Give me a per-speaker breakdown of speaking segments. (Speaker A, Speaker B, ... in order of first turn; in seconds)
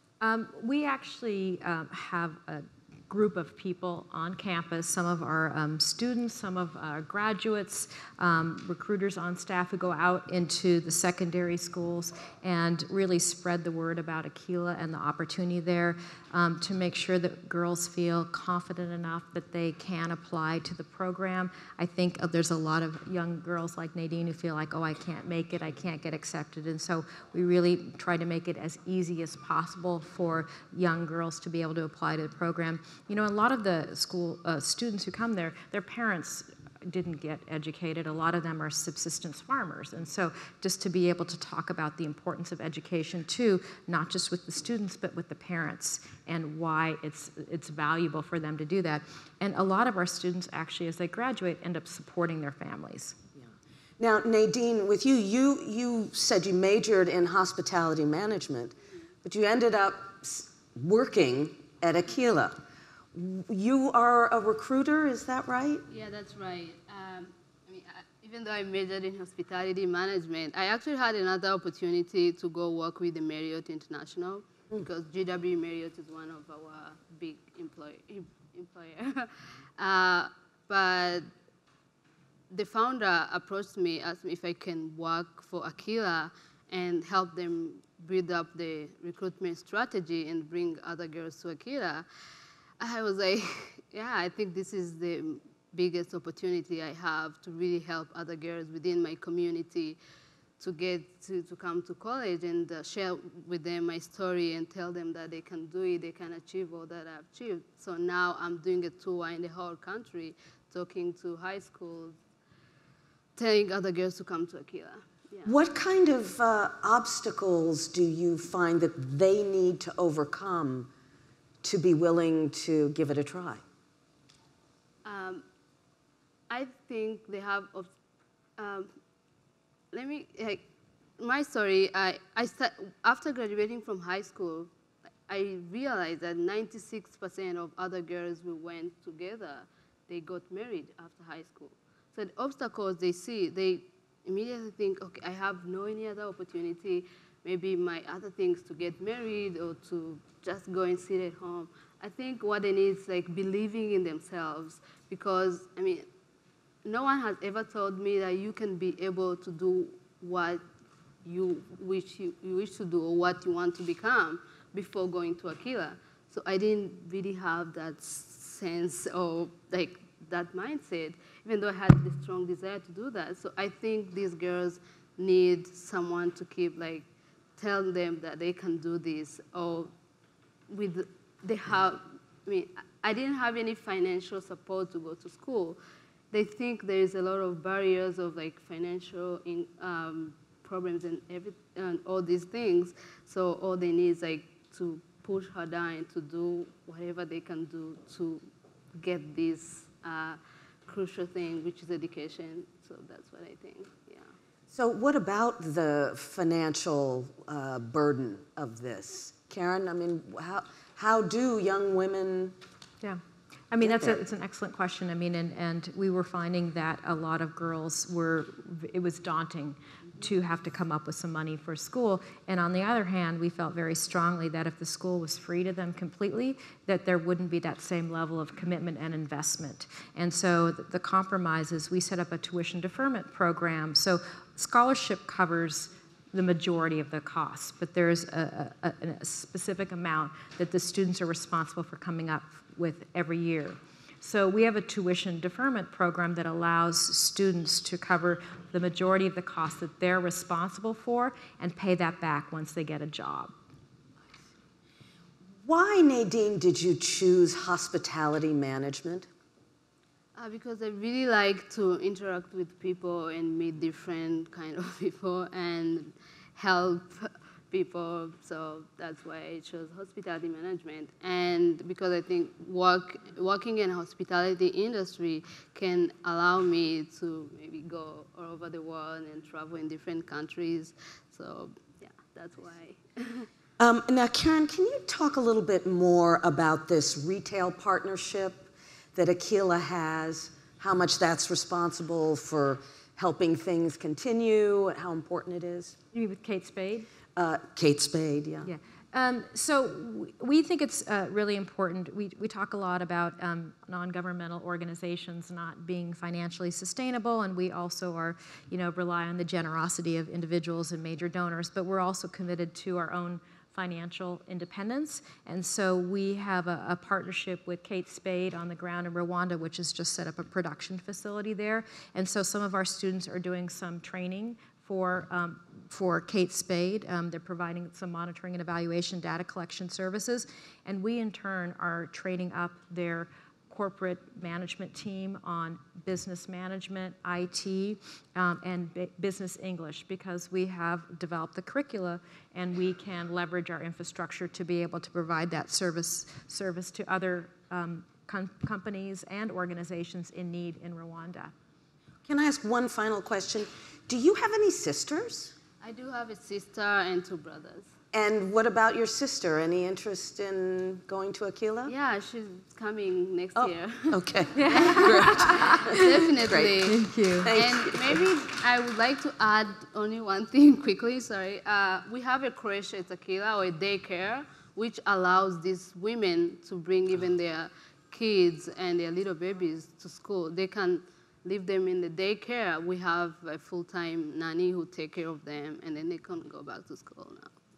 Speaker A: 0.2-53.2, 213.0-253.5, 296.1-297.1, 298.6-351.5, 364.6-365.9, 366.8-367.5
Speaker B: 54.0-62.6, 63.1-65.8, 115.5-120.9, 121.6-123.6, 204.7-212.6, 213.8-214.2, 255.6-259.3, 283.8-296.0, 297.4-298.7, 352.3-355.6, 358.1-361.9, 363.6-368.3
Speaker C: 65.9-81.3, 82.5-92.1, 92.8-100.0, 100.6-112.2, 113.4-115.5, 125.0-125.4, 126.5-127.9, 128.6-128.9, 129.9-130.6, 131.2-134.7, 135.3-156.1, 156.8-160.6, 161.2-177.1, 177.6-179.9, 180.7-185.8, 186.3-204.3, 260.4-283.5, 355.8-357.9, 361.9-387.5